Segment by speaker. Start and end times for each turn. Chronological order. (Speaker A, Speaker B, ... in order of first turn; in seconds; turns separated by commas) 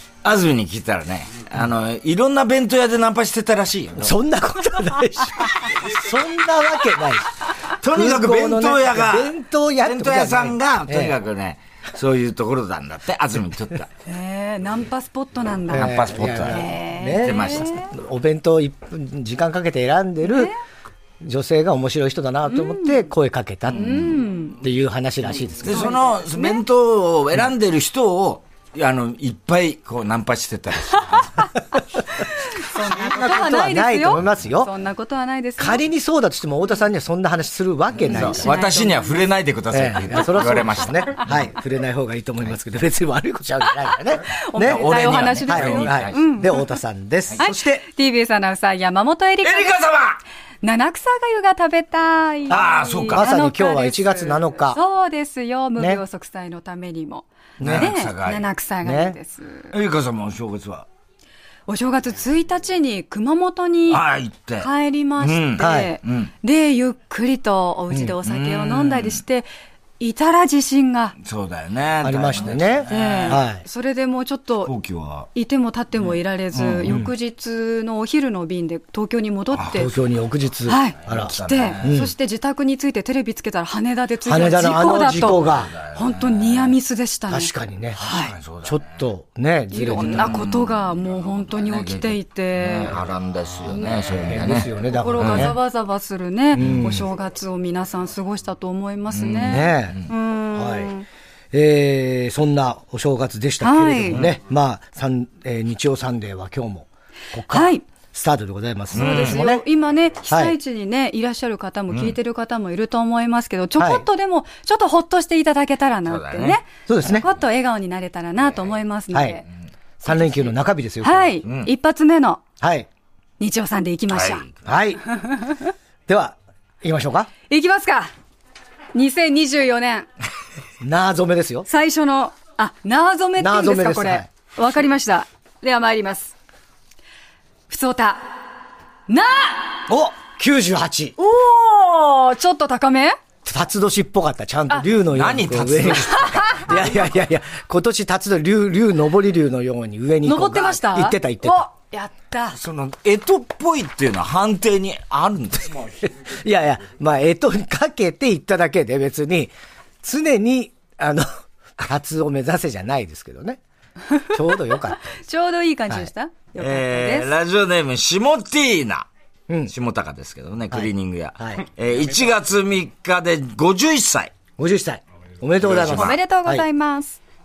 Speaker A: 0.2-4.1, Speaker B: 4.0-7.3, Speaker A: 7.8-13.9, Speaker B: 7.8-11.1, Speaker C: 14.1-17.9, Speaker B: 15.7-20.5, Speaker A: 15.8-16.6, Speaker A: 17.2-17.8, Speaker C: 20.2-20.6, Speaker B: 21.2-25.9, Speaker C: 22.5-23.0, Speaker A: 23.7-24.0, Speaker C: 23.7-24.6, Speaker A: 25.6-31.5, Speaker C: 25.6-26.6, Speaker C: 32.5-35.8, Speaker B: 32.8-34.7, Speaker B: 35.6-38.5, Speaker C: 38.0-39.1, Speaker A: 38.1-41.3, Speaker B: 39.7-44.8, Speaker C: 44.2-46.7, Speaker A: 44.6-46.2, Speaker B: 45.5-47.8, Speaker C: 47.4-49.8, Speaker A: 49.4-50.2, Speaker C: 50.6-59.7, Speaker A: 52.5-53.3, Speaker B: 52.5-54.8, Speaker B: 57.6-57.9, Speaker A: 57.6-58.5, Speaker B: 58.8-59.2, Speaker A: 59.7-60.9, Speaker C: 61.7-64.0, Speaker A: 63.9-66.3, Speaker C: 64.6-69.5, Speaker B: 65.6-65.9, Speaker A: 68.2-69.2, Speaker C: 70.0-71.1, Speaker A: 71.2-73.4, Speaker B: 72.0-73.6, Speaker C: 72.9-74.7, Speaker A: 74.7-75.3, Speaker C: 75.3-79.9, Speaker A: 76.0-77.0, Speaker B: 76.8-77.1, Speaker B: 79.7-82.1, Speaker C: 80.7-88.3, Speaker A: 81.1-82.1, Speaker B: 84.2-85.7, Speaker A: 85.1-86.7, Speaker B: 87.3-88.0, Speaker A: 88.0-89.0, Speaker B: 88.6-90.3, Speaker C: 89.7-92.9, Speaker A: 89.9-95.5, Speaker C: 93.7-101.0, Speaker B: 94.2-95.6, Speaker A: 96.5-97.0, Speaker B: 96.5-97.1, Speaker A: 99.1-100.1, Speaker B: 99.4-100.0, Speaker B: 100.5-100.9, Speaker B: 101.5-109.6, Speaker C: 103.6-104.2, Speaker A: 104.1-104.3, Speaker C: 107.5-107.8, Speaker A: 108.9-109.4, Speaker C: 108.9-119.4, Speaker B: 110.3-110.5, Speaker A: 111.9-112.2, Speaker B: 113.8-114.0, Speaker A: 116.0-116.6, Speaker B: 116.9-117.3, Speaker B: 119.1-119.4, Speaker B: 120.0-121.3, Speaker C: 120.1-122.4, Speaker A: 121.4-121.7, Speaker B: 122.6-122.9, Speaker C: 123.4-124.4, Speaker A: 124.1-124.7, Speaker B: 124.7-125.0, Speaker C: 125.1-125.7, Speaker B: 126.1-127.3, Speaker C: 127.5-128.1, Speaker C: 128.9-130.1, Speaker B: 130.8-131.7, Speaker C: 131.7-136.3, Speaker B: 133.4-134.3, Speaker C: 137.7-138.3, Speaker C: 139.1-139.8, Speaker B: 139.9-141.1, Speaker C: 141.2-143.2, Speaker B: 143.4-151.7, Speaker A: 145.1-146.7, Speaker C: 146.1-146.9, Speaker C: 150.2-152.6, Speaker A: 152.5-155.8, Speaker B: 156.2-163.6, Speaker C: 164.1-167.3, Speaker B: 164.3-165.1, Speaker A: 166.6-169.1, Speaker B: 169.5-169.7, Speaker A: 169.7-174.3, Speaker B: 170.7-171.6, Speaker B: 174.6-176.6, Speaker A: 175.6-176.2, Speaker C: 175.8-177.2